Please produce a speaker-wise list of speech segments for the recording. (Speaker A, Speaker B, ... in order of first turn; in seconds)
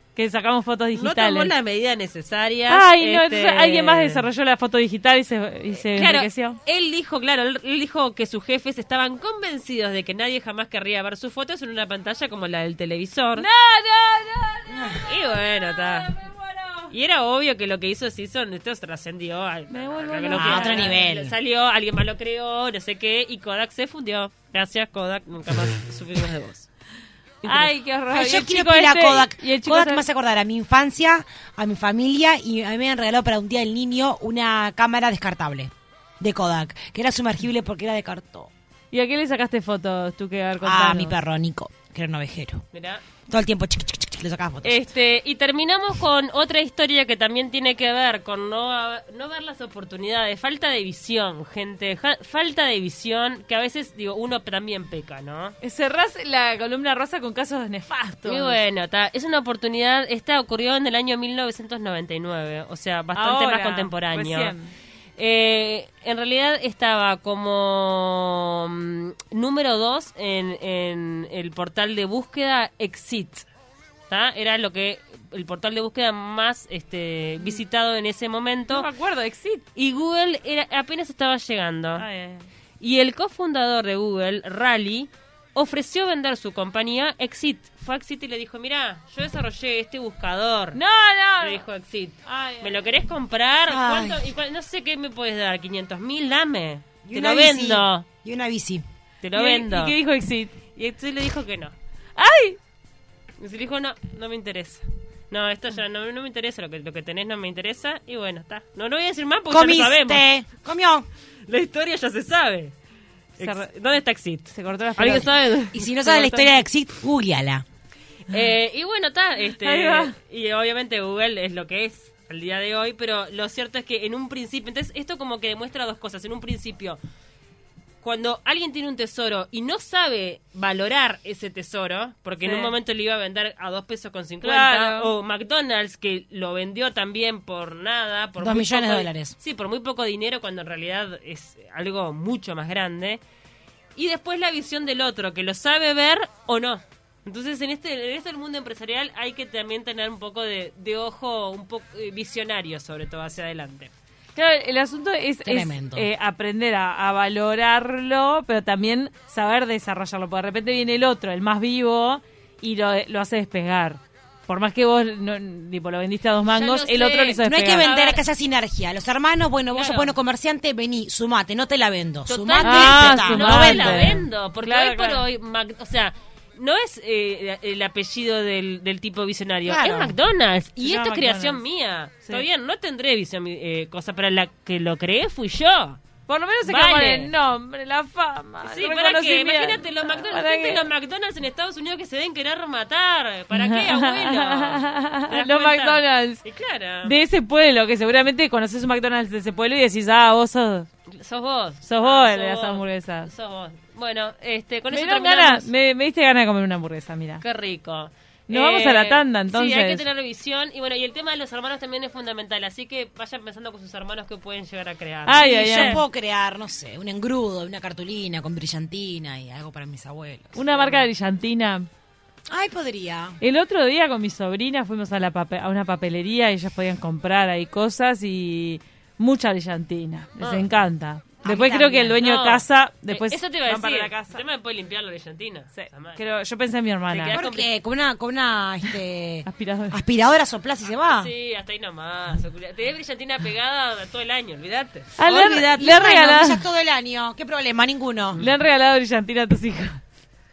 Speaker A: 0.2-1.5, 2.7-6.6, 13.4-16.9, 19.7-21.0, 27.4-30.0, 38.9-41.1, 55.6-58.6, 63.1-64.7, 78.7-79.6, 82.0-82.5, 90.7-91.6, 92.3-92.8, 99.3-100.5, 102.2-102.6, 113.4-113.7, 114.5-115.3, 119.5-120.1, 132.4-132.7, 134.4-135.1, 154.4-167.9, 169.7-170.1, 172.6-175.3, 180.8-181.6, 186.3-190.9, 193.5-196.4, 197.0-200.9, 201.8-203.3, 204.9-207.4, 208.5-210.0, 215.2-216.0, 220.6-221.9, 223.4-234.4, 235.8-237.4, 239.5-240.0, 245.2-246.7, 248.4-250.0
Speaker B: 0.9-4.3, 5.8-13.5, 15.0-16.1, 16.9-26.7, 27.4-27.7, 42.7-43.0, 44.6-55.6, 58.2-64.5, 65.2-73.5, 74.1-78.9, 79.8-82.1, 82.8-90.8, 91.4-98.0, 99.2-100.0, 100.8-101.8, 103.4-110.3, 111.5-112.7, 113.4-116.6, 118.3-127.0, 128.0-143.2, 144.0-153.9, 166.5-168.2, 172.3-186.0, 186.6-187.3, 188.6-197.1, 201.1-205.7, 207.4-216.0, 220.7-221.1, 230.4-230.7, 231.4-236.3, 237.1-237.7, 241.0-245.2
Speaker C: 14.7-15.0, 20.3-21.4, 28.1-38.5, 40.6-42.6, 43.3-44.9, 93.7-94.2, 97.0-98.8, 109.5-111.1, 115.7-117.6, 138.4-139.3, 155.4-156.1, 167.4-174.2, 179.7-180.2, 215.4-220.6, 222.5-223.4, 231.5-231.9, 237.3-241.3, 245.3-248.4